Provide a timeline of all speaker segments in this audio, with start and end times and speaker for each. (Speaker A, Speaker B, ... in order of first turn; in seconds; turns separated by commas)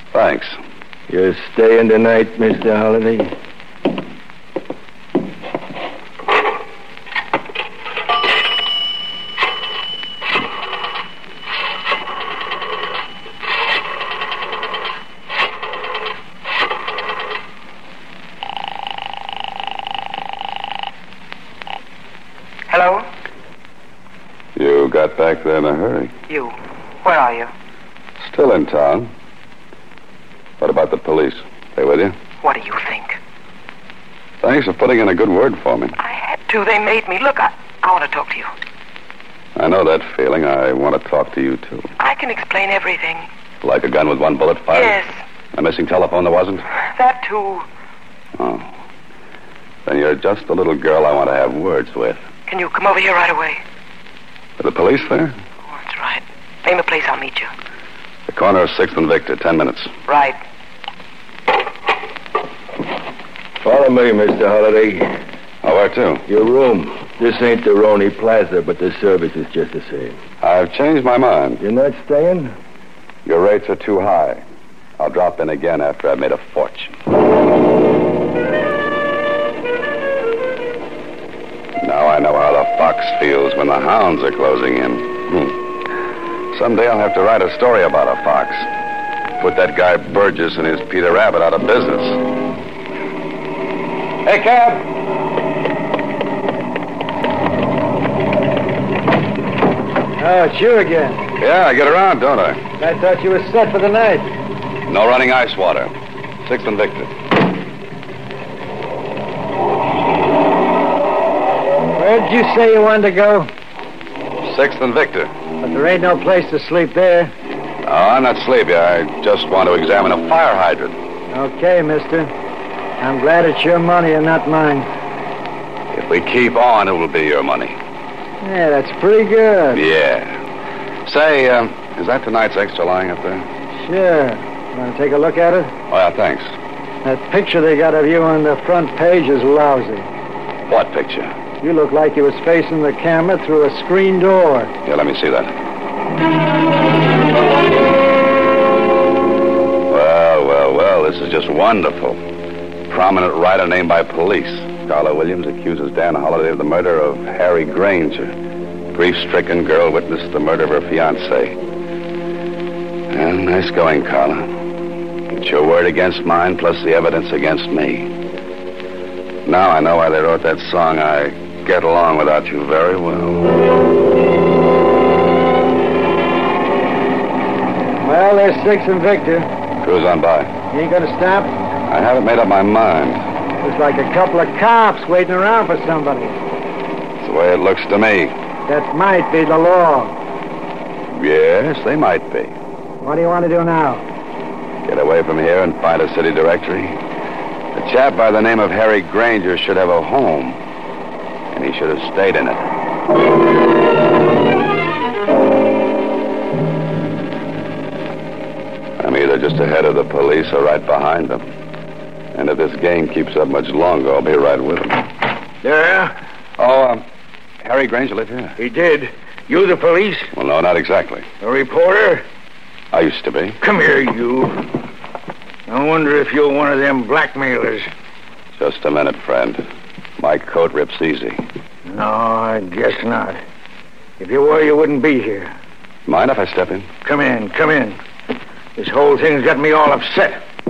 Speaker A: 0.1-0.6, Speaker B: 1.1-3.3, Speaker C: 22.7-23.1, Speaker A: 24.6-26.1, Speaker C: 26.3-27.5, Speaker A: 28.2-29.1, Speaker A: 30.6-32.1, Speaker C: 32.4-33.2, Speaker A: 34.4-35.9, Speaker C: 36.0-38.5, Speaker A: 39.5-41.9, Speaker C: 42.0-43.3, Speaker A: 43.6-45.0, Speaker C: 44.7-45.1, Speaker A: 45.5-46.6, Speaker C: 46.9-47.6, Speaker A: 48.4-48.6, Speaker A: 49.9-52.2, Speaker C: 52.5-53.6, Speaker A: 54.6-55.3, Speaker C: 55.8-57.5, Speaker A: 58.3-59.9, Speaker C: 60.1-60.4, Speaker B: 63.6-65.1, Speaker A: 65.6-66.2, Speaker B: 66.3-70.2, Speaker A: 70.4-71.6, Speaker B: 71.6-72.5, Speaker A: 73.2-74.4, Speaker A: 75.0-77.0, Speaker A: 81.8-85.6, Speaker A: 86.5-88.7, Speaker A: 89.4-92.2, Speaker A: 94.2-94.9, Speaker D: 100.2-101.2, Speaker A: 101.4-102.6, Speaker D: 102.8-104.3, Speaker A: 104.9-105.9, Speaker A: 106.4-107.1, Speaker D: 112.0-113.5, Speaker A: 114.5-115.3, Speaker D: 115.6-117.3, Speaker A: 117.8-121.0, Speaker D: 121.3-122.3, Speaker D: 123.0-124.9, Speaker A: 125.9-127.8, Speaker D: 128.4-129.8, Speaker A: 129.7-130.3, Speaker A: 131.0-133.5, Speaker D: 133.8-135.7, Speaker A: 135.9-136.5, Speaker D: 137.0-140.1, Speaker A: 140.7-141.3, Speaker D: 141.6-144.7, Speaker A: 144.8-145.5, Speaker A: 149.9-152.2, Speaker A: 152.9-158.3, Speaker A: 158.9-161.6, Speaker A: 163.1-164.5, Speaker A: 165.3-168.1, Speaker A: 169.4-173.5, Speaker D: 178.0-179.5, Speaker A: 179.8-180.5, Speaker D: 180.7-181.6, Speaker A: 181.9-183.2, Speaker D: 183.6-186.4, Speaker A: 187.2-188.3, Speaker D: 188.7-190.1, Speaker A: 191.1-192.5, Speaker D: 193.0-194.0, Speaker A: 194.8-197.0, Speaker A: 197.7-200.6, Speaker A: 201.5-202.6, Speaker A: 209.0-211.5, Speaker A: 212.3-215.0, Speaker E: 215.6-216.1, Speaker A: 216.6-217.0, Speaker A: 217.6-218.6, Speaker E: 218.6-220.3, Speaker A: 220.3-221.3, Speaker E: 221.4-222.2, Speaker A: 222.9-223.6, Speaker E: 223.6-224.7, Speaker E: 225.7-227.9, Speaker A: 228.6-229.6, Speaker A: 230.2-231.4, Speaker E: 231.8-233.4, Speaker E: 234.2-235.5, Speaker A: 236.1-236.9, Speaker E: 237.0-238.0, Speaker E: 238.8-240.4